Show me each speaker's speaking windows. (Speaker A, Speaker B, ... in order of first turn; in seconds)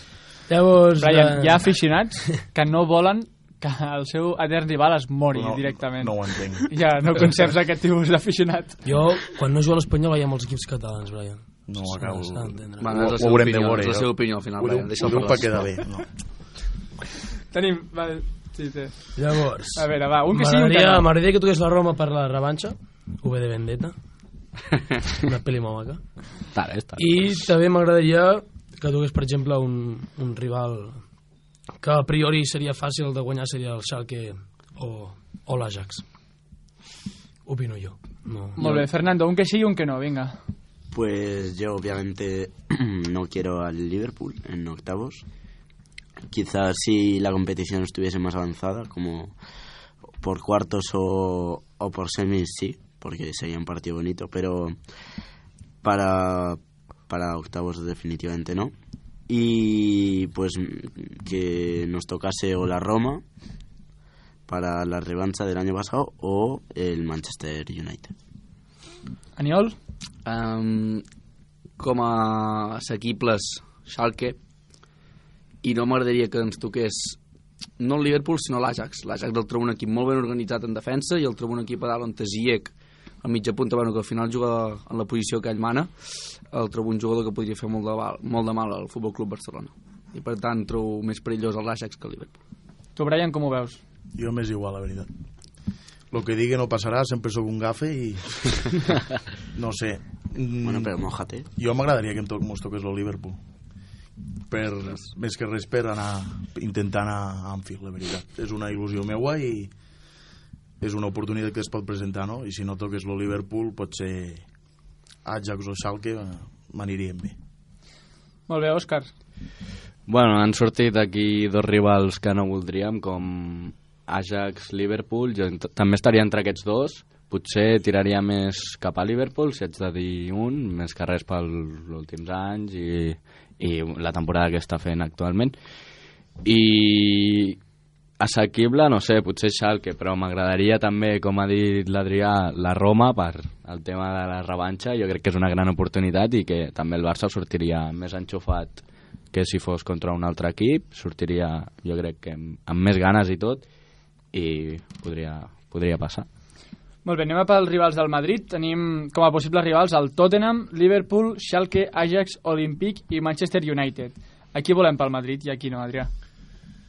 Speaker A: 0.5-1.7, 8.8-12.9, 19.1-23.9, 25.2-26.0, 26.9-31.0, 31.8-36.0, 37.5-38.6
Speaker B: 1.0-8.8, 17.5-19.1, 19.7-21.1, 38.5-40.4, 69.4-69.8, 93.0-93.8, 118.5-119.1, 157.0-166.1
Speaker C: 5.3-6.7, 11.7-16.1, 94.1-95.1, 96.1-98.7, 99.5-100.9, 101.5-103.4, 104.5-109.7, 110.8-114.4, 115.2-117.3
Speaker D: 12.8-15.7, 38.6-38.9, 70.2-71.0, 71.8-74.4, 75.6-77.2, 77.8-92.3
Speaker E: 26.5-27.3, 120.1-135.5, 136.4-137.6, 138.2-153.6, 154.3-156.3
Speaker F: 40.9-45.2, 46.3-49.3, 50.2-54.8, 55.8-58.7, 59.3-63.2, 64.5-68.1, 100.6-101.5